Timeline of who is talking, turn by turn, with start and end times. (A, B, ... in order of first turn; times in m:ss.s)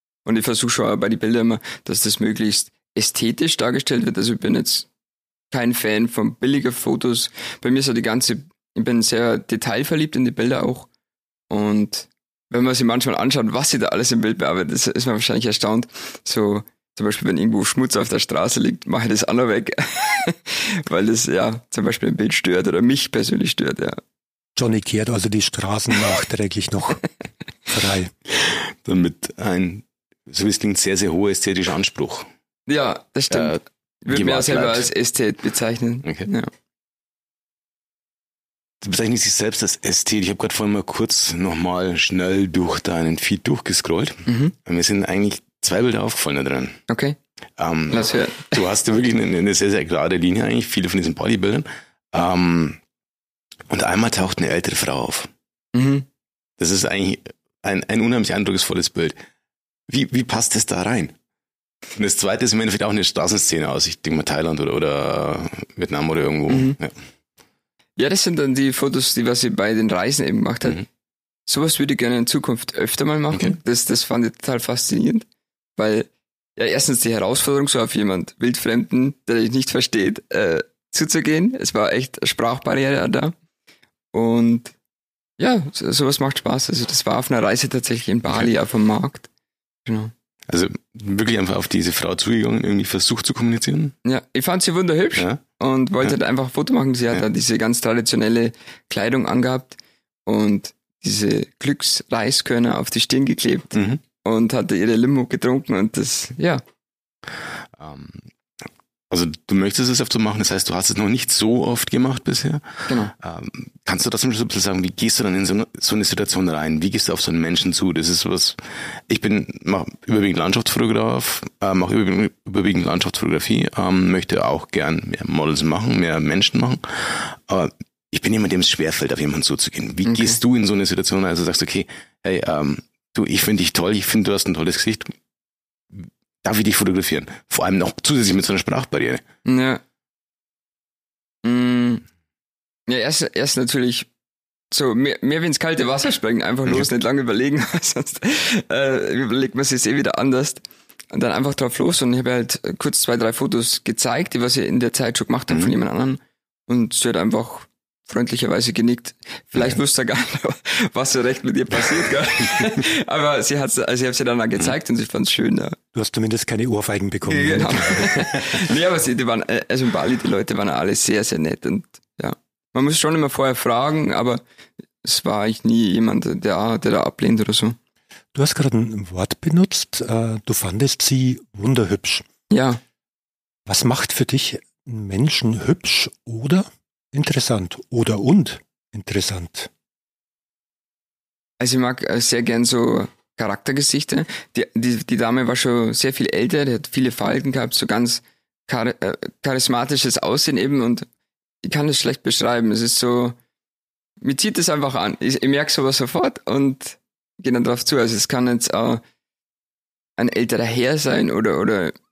0:00.2-0:04.9 A
0:05.5-0:10.9 A
0:11.5-0:24.0 A
0:24.6-0:27.0 B
0:27.7-0:28.1 B
0:28.4-0:32.3 C
0:32.7-0:36.5 A
0:33.3-0:34.9 C
0:36.0-0:36.3 C
0:38.8-0:46.8 C
0:44.3-0:44.5 A
0:46.9-0:47.2 A
0:47.6-0:52.8 C
0:47.9-0:48.6 A
0:53.7-0:55.3 C
0:55.7-0:56.1 A
0:56.6-0:59.2 C
0:59.9-1:01.1 C
1:02.0-1:07.0 C
1:06.5-1:06.8 A
1:08.0-1:10.8 A
1:11.5-1:23.4 A
1:24.1-1:24.7 A
1:25.4-1:29.3 A
1:29.9-1:30.1 A
1:30.5-1:34.0 C
1:34.0-1:46.6 A
1:43.8-1:44.0 C
1:47.8-1:48.3 C
1:49.1-2:15.1 C
1:52.9-1:53.1 A
2:10.1-2:10.4 A
2:15.9-2:19.2 C
2:19.4-2:19.8 A
2:21.4-2:22.0 A
2:22.9-2:24.1 A
2:24.7-2:45.8 A
2:45.9-2:48.3 B
2:47.3-2:54.4 A
2:55.0-2:57.8 A
2:58.3-3:02.3 B
3:02.5-3:02.8 A
3:03.7-3:09.7 B
3:11.6-3:21.1 A
3:21.6-3:23.4 A
3:24.2-3:29.0 A
3:30.2-3:31.9 A